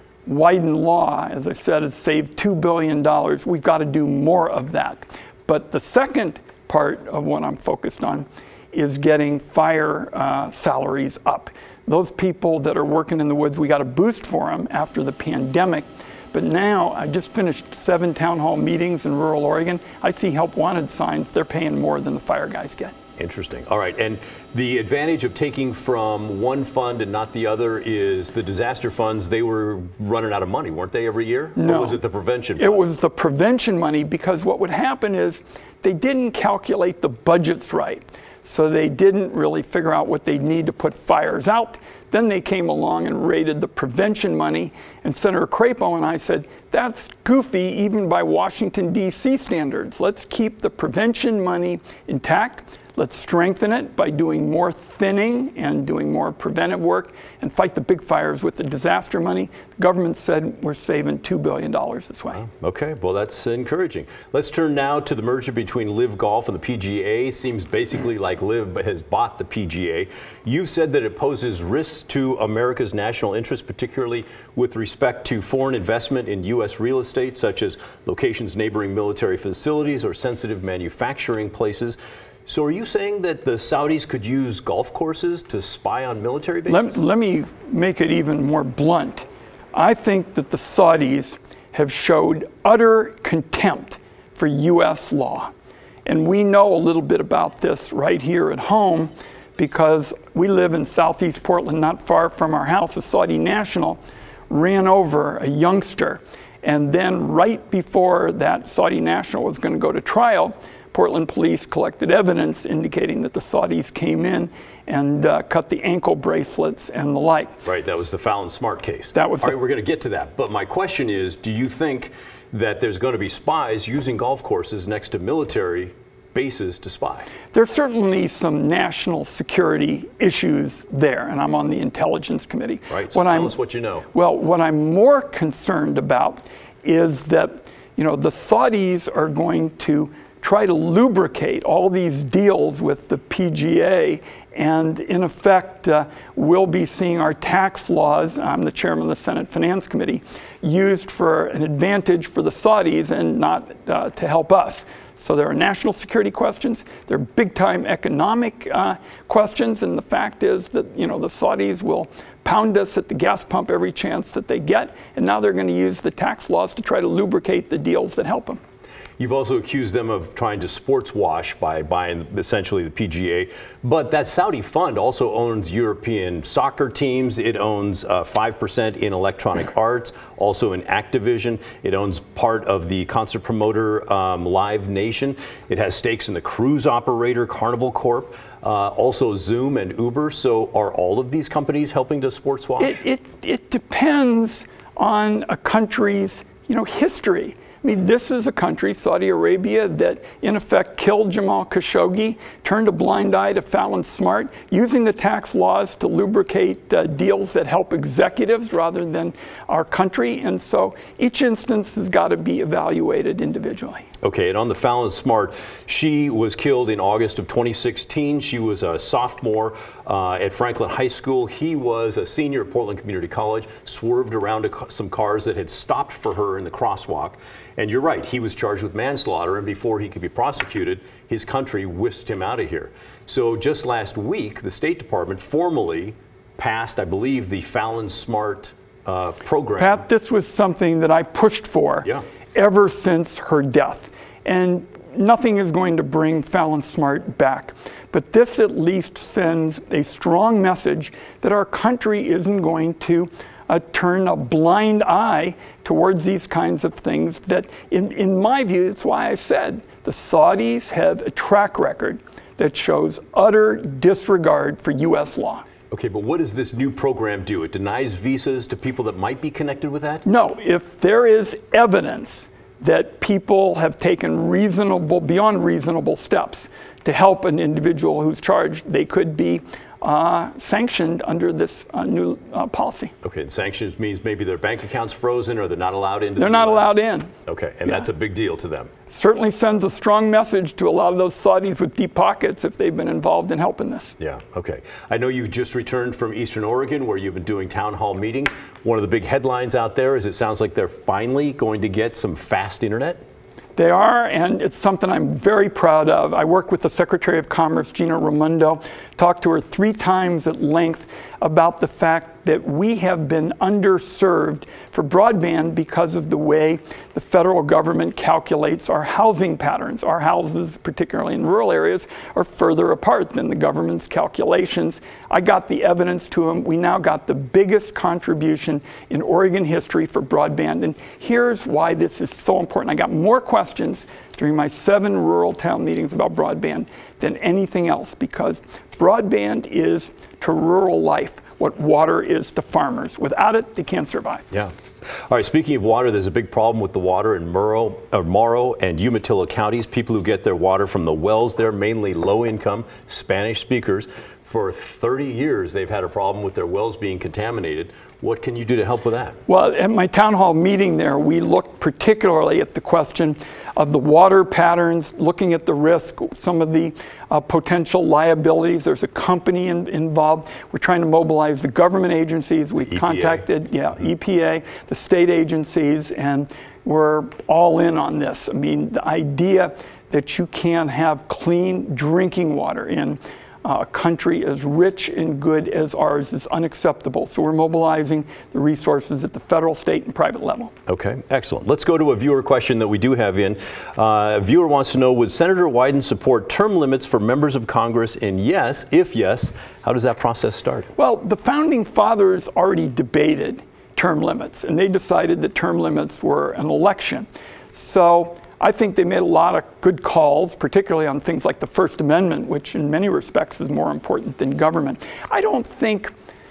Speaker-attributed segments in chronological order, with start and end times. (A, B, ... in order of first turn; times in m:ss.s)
0:00.2-0:23.0 A
0:23.2-0:32.8 B
0:31.6-0:32.0 A
0:32.6-1:02.4 A
1:02.4-1:27.0 B
1:26.7-1:35.5 A
1:36.0-1:57.6 A
1:57.6-2:07.3 B
1:59.1-1:59.6 A
2:07.5-2:13.6 A
2:12.9-2:14.0 B
2:14.1-2:48.6 A
2:49.2-3:13.0 B
3:12.8-3:34.1 A
3:34.2-4:00.0 B
3:59.8-4:25.6 A
4:25.9-4:30.2 B
4:30.2-4:43.1 A
4:43.2-4:48.9 B
4:46.4-4:47.3 A
4:49.1-4:54.1 A
4:54.2-5:03.2 B
5:03.8-5:44.4 A
5:45.3-5:59.4 B
5:59.5-6:30.7 A
6:12.8-6:13.4 B
6:30.9-6:40.9 B
6:41.0-6:56.1 A